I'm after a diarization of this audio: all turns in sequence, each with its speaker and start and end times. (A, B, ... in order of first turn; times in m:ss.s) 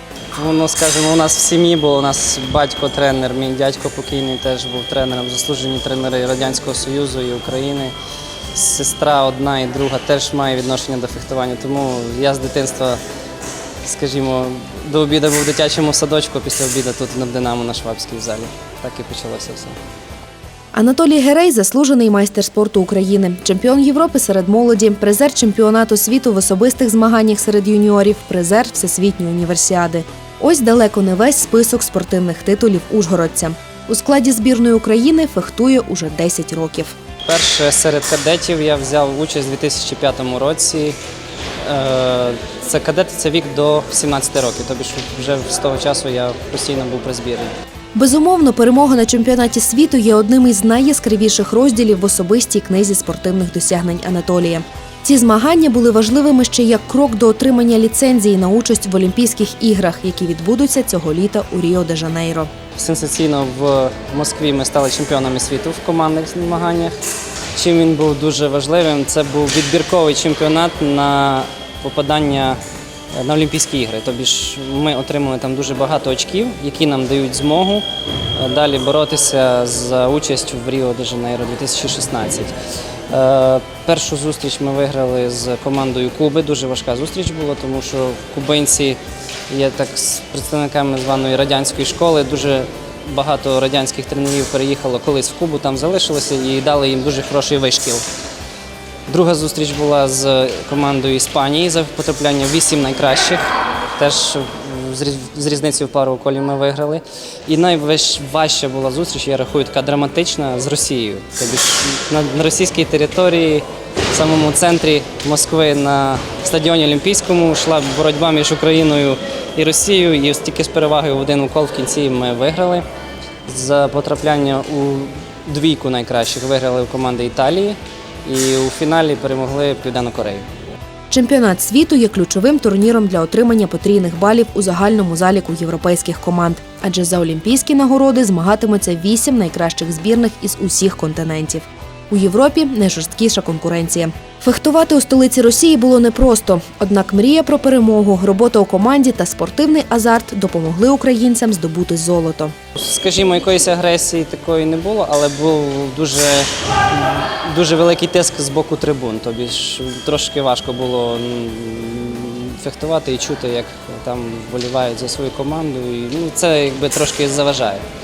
0:00.3-0:07.9 A
0:08.5-0:13.0 A
0:13.8-0:19.8 A
0:20.7-0:36.9 B
0:37.2-0:41.0 A
0:41.6-0:47.5 A
0:47.9-1:02.5 B
1:02.8-1:06.9 A
1:07.5-1:12.6 A
1:13.1-1:17.8 A
1:18.4-1:22.5 A
1:23.1-1:38.0 A
1:39.1-1:43.4 A
1:43.9-2:02.8 A
2:03.4-2:10.4 A
2:11.1-2:32.5 B
2:32.8-2:47.8 A